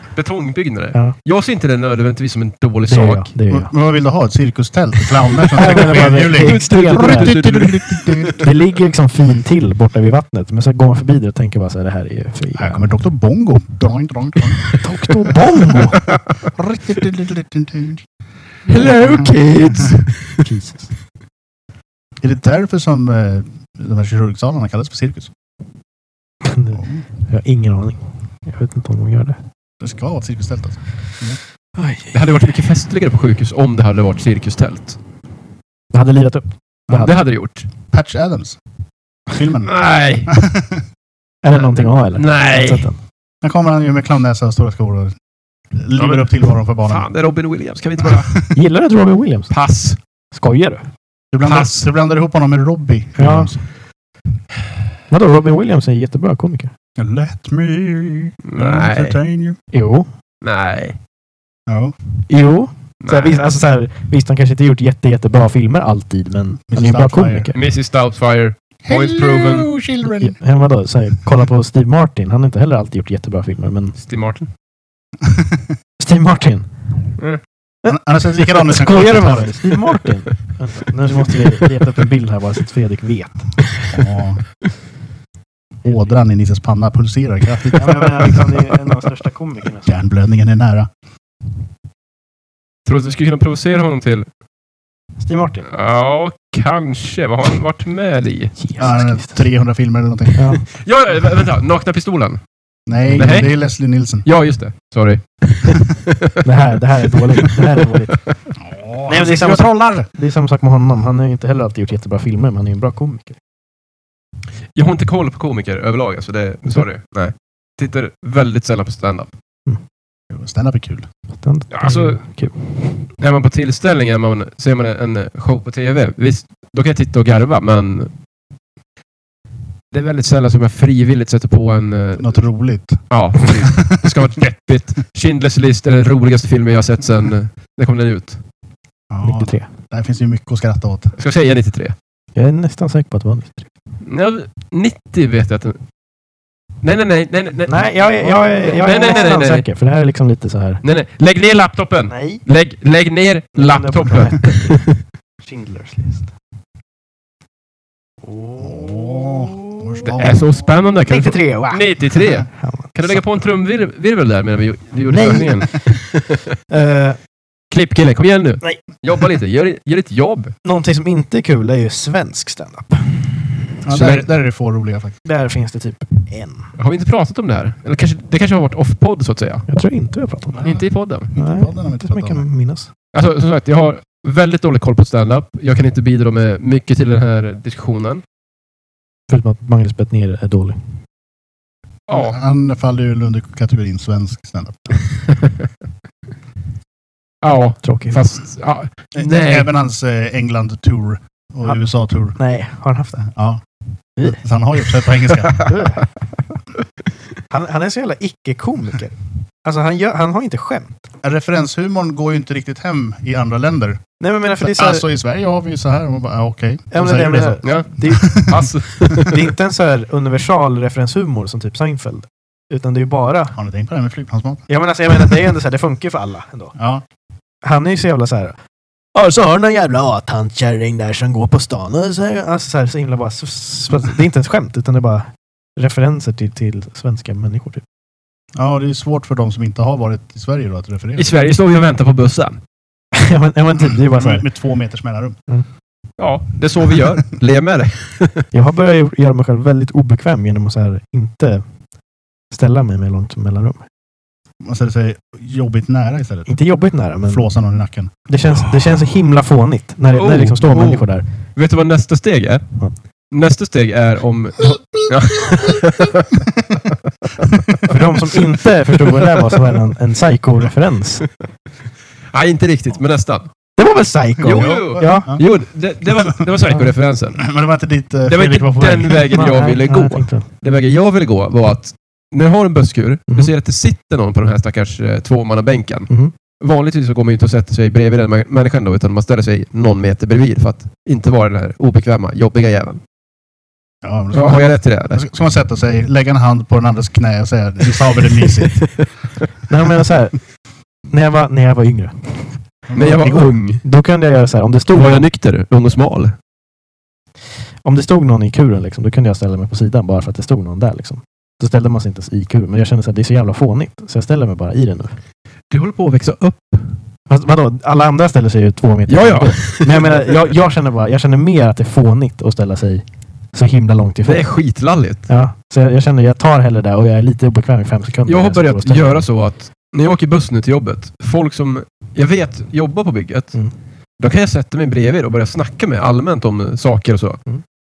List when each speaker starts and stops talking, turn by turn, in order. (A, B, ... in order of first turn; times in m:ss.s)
0:00.1-0:03.3 A
0:02.8-0:03.7 B
0:03.5-0:08.4 C
0:05.5-0:08.4 A
0:05.5-0:07.4 B
0:08.4-0:12.9 B
0:12.5-0:14.7 C
0:14.7-0:16.0 B
0:16.4-0:18.0 C
0:18.7-0:20.4 A
0:18.7-0:19.3 B
0:18.9-0:19.9 C
0:20.4-0:20.9 B
0:22.2-0:25.3 C
0:26.4-0:29.4 B
0:26.8-0:27.0 C
0:29.8-0:31.4 C
0:31.8-0:32.1 B
0:32.1-0:35.0 A
0:35.9-0:37.1 B
0:36.9-0:37.1 C
0:36.9-0:37.7 A
0:37.9-0:38.6 C
0:39.3-0:39.8 C
0:39.6-0:40.3 A
0:40.3-0:40.8 C
0:41.4-0:43.0 B
0:41.5-0:42.9 A
0:43.4-0:45.2 C
0:45.7-0:47.0 C
0:46.0-0:48.4 A
0:48.0-0:48.4 C
0:48.5-0:49.5 B
0:49.5-0:50.0 A
0:50.3-0:50.8 B
0:51.3-0:53.6 C
0:51.4-0:51.8 A
0:53.2-0:53.5 B
0:55.1-0:56.7 B
0:57.0-0:59.6 C
0:58.4-0:59.2 A
0:59.7-1:00.1 B
1:00.4-1:01.0 A
1:01.7-1:02.0 C
1:02.3-1:07.6 B
1:03.0-1:03.4 A
1:06.7-1:07.5 C
1:07.5-1:09.7 A
1:08.8-1:10.4 C
1:10.2-1:14.0 B
1:14.0-1:14.5 A
1:16.0-1:16.7 B
1:17.8-1:23.6 B
1:17.8-1:19.5 C
1:23.9-1:24.4 C
1:25.8-1:28.5 C
1:27.7-1:30.0 B
1:29.8-1:30.9 C
1:32.8-1:34.3 A
1:35.2-1:35.7 B
1:35.7-1:38.6 A
1:38.6-1:39.4 B
1:38.8-1:40.5 C
1:40.3-1:40.6 B
1:40.7-1:42.4 A
1:42.9-1:44.2 C
1:43.1-1:43.5 A
1:44.2-1:46.3 A
1:46.4-1:48.2 B
1:48.6-1:50.1 C
1:49.1-1:53.4 B
1:54.7-1:59.3 A
2:00.3-2:01.1 C
2:01.4-2:03.1 B
2:01.7-2:02.2 A
2:03.1-2:08.1 A
2:09.9-2:12.3 A
2:12.2-2:14.0 C
2:13.1-2:18.4 A
2:19.1-2:21.1 C
2:19.2-2:19.7 B
2:21.2-2:22.0 A
2:22.3-2:23.7 B
2:24.0-2:25.8 A
2:26.8-2:27.9 A
2:27.7-2:30.8 B
2:28.6-2:29.6 A
2:30.8-2:35.0 A
2:32.1-2:32.4 B
2:33.5-2:34.8 B
2:35.4-2:36.3 B
2:38.2-2:40.0 B
2:38.6-2:40.5 C
2:40.0-2:46.5 A
2:41.0-2:42.0 B
2:42.5-2:43.2 B
2:45.1-2:46.0 B
2:46.7-2:47.2 B
2:47.7-2:50.5 A
2:50.6-2:53.4 B
2:53.8-2:55.2 C
2:53.9-2:54.2 A
2:55.2-2:56.7 B
2:56.8-2:59.7 A
2:59.7-3:00.7 B
3:00.6-3:01.3 A
3:01.3-3:02.5 C
3:01.4-3:02.9 B
3:03.1-3:08.2 A
3:09.3-3:10.8 B
3:12.1-3:12.4 A
3:12.1-3:15.0 C
3:17.4-3:19.7 A
3:17.8-3:18.2 B
3:19.1-3:22.4 C
3:22.4-3:23.3 B
3:23.3-3:23.6 C
3:24.2-3:24.4 B
3:24.2-3:25.8 C
3:25.4-3:25.7 A
3:25.6-3:26.0 B
3:27.5-3:31.0 B
3:31.2-3:34.0 C
3:34.2-3:35.0 B
3:34.6-3:38.6 C
3:36.9-3:38.5 B
3:37.6-3:39.5 A
3:39.1-3:43.6 B
3:43.5-3:44.6 C
3:44.7-3:46.8 B
3:46.8-3:47.0 C
3:47.6-3:48.6 B
3:49.1-3:57.8 B
3:58.6-4:01.3 C
4:01.2-4:02.6 A
4:03.1-4:04.5 B
4:03.8-4:05.4 C
4:06.2-4:08.5 A
4:08.5-4:11.6 B
4:12.5-4:13.8 B
4:14.6-4:16.5 C
4:16.5-4:17.5 B
4:17.3-4:18.1 C
4:18.3-4:21.2 B
4:20.1-4:22.7 A
4:23.3-4:26.9 A
4:27.8-4:31.2 B
4:29.0-4:29.3 A
4:32.3-4:33.5 A
4:33.8-4:35.3 B
4:34.4-4:37.4 A
4:34.5-4:35.5 C
4:37.4-4:39.3 C
4:38.2-4:53.0 A
4:39.3-4:40.5 B
4:54.0-4:59.0 C
4:54.3-4:55.2 A
4:58.6-4:59.0 A
4:59.7-5:00.4 B
5:01.1-5:02.5 B
5:02.9-5:03.5 C
5:03.0-5:03.8 A
5:03.8-5:05.3 B
5:04.9-5:06.4 A
5:07.8-5:15.2 B
5:15.7-5:17.0 A
5:17.3-5:24.5 B
5:19.1-5:20.4 A
5:24.2-5:25.2 A
5:25.3-5:29.2 B
5:28.2-5:33.6 A
5:34.2-5:37.4 A